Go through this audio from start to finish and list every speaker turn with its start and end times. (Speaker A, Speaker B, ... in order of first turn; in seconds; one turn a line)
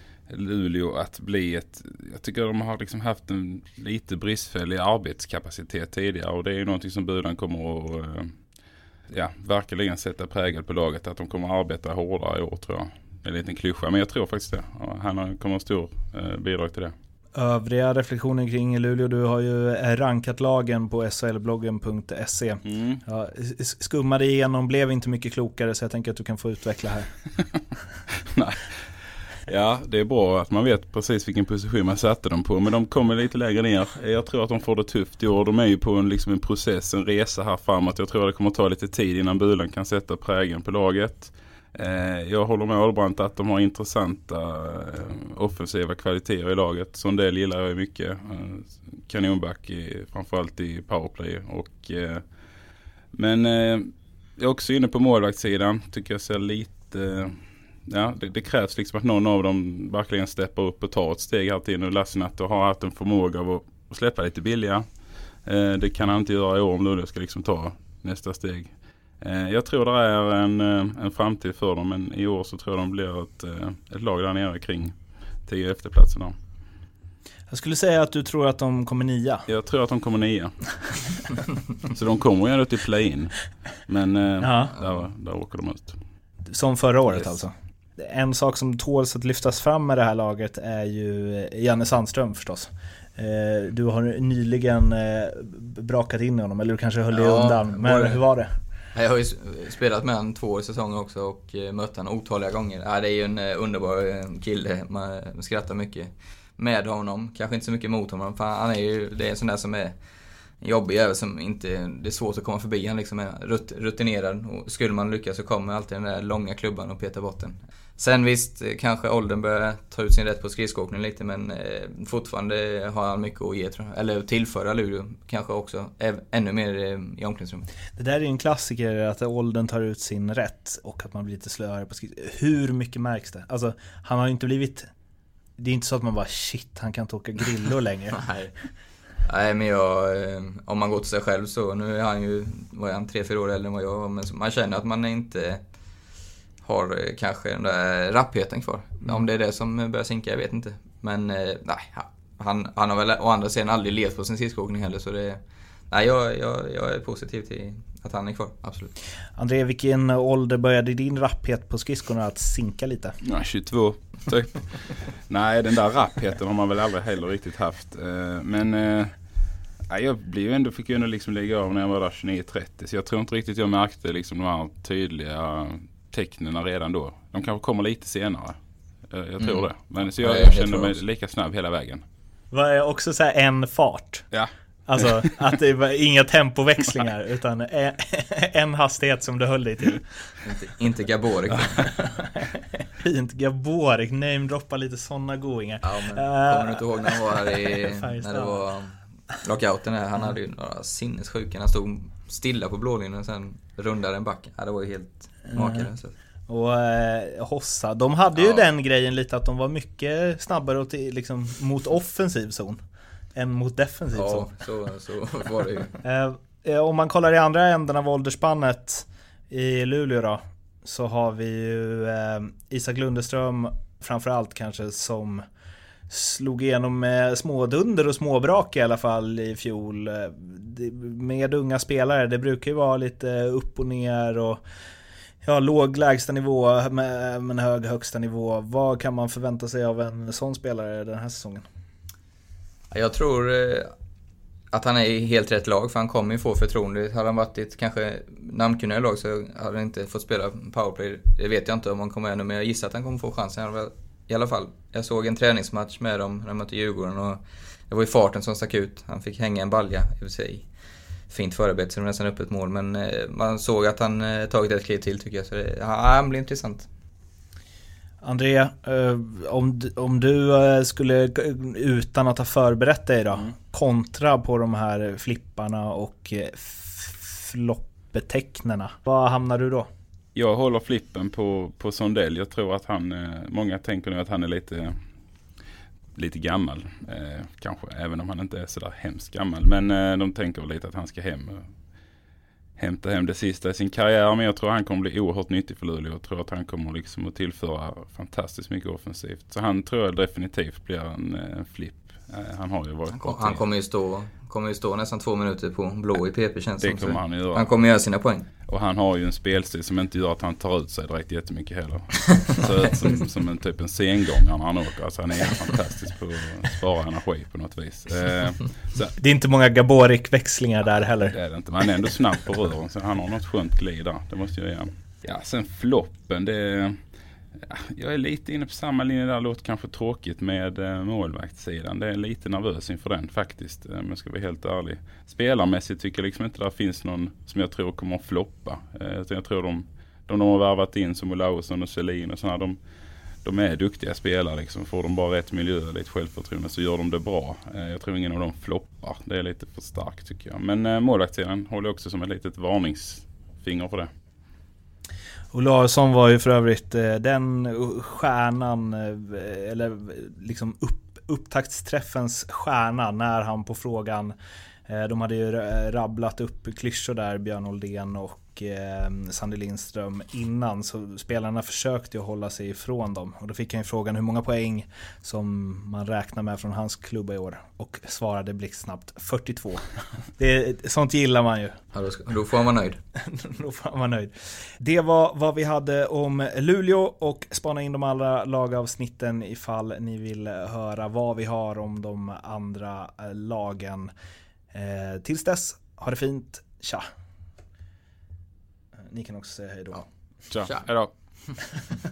Speaker A: 0.3-8.3
Speaker A: 9.1-16.9
Speaker B: 17.4-27.1
Speaker A: 22.7-23.0
Speaker A: 29.5-52.2
Speaker A: 53.2-57.3
Speaker A: 57.9-64.8
Speaker A: 65.5-68.7
Speaker A: 69.2-74.9
Speaker A: 75.5-76.3
Speaker B: 77.5-79.5
Speaker A: 79.5-80.5
Speaker A: 81.9-86.0
Speaker B: 84.4-84.7
Speaker B: 86.5-98.5
Speaker A: 87.1-87.3
Speaker C: 97.1-98.2
Speaker C: 99.0-110.0
Speaker C: 110.6-127.7
Speaker B: 128.0-134.9
Speaker B: 135.6-138.2
Speaker C: 138.2-138.5
Speaker C: 139.3-145.6
Speaker C: 146.6-158.9
Speaker B: 159.4-163.1
Speaker A: 163.3-169.1
Speaker A: 169.9-178.6
Speaker A: 179.1-182.0
Speaker C: 179.4-181.0
Speaker B: 182.5-184.3
Speaker B: 184.9-190.1
Speaker C: 190.4-191.9
Speaker B: 192.4-198.6
Speaker C: 195.8-206.1
Speaker B: 205.5-205.9
Speaker B: 206.5-212.8
Speaker C: 208.4-208.6
Speaker B: 213.3-214.5
Speaker C: 214.2-216.0
Speaker B: 216.0-225.4
Speaker B: 226.1-234.6
Speaker B: 235.4-241.7
Speaker C: 242.9-243.9
Speaker C: 244.7-260.7
Speaker C: 261.3-266.9
Speaker B: 268.2-279.9
Speaker A: 280.4-284.9
Speaker A: 286.1-291.6
Speaker A: 292.8-303.6
Speaker C: 303.1-308.5
Speaker A: 306.8-307.7
Speaker A: 308.7-319.1
Speaker B: 319.2-321.4
Speaker A: 321.3-326.9
Speaker A: 327.7-342.8
Speaker A: 343.4-354.1
Speaker B: 355.5-364.4
Speaker B: 364.9-379.8
Speaker B: 380.4-381.7
Speaker C: 381.9-383.0
Speaker B: 383.2-394.1
Speaker B: 394.7-397.1
Speaker B: 399.1-400.0
Speaker A: 400.5-401.1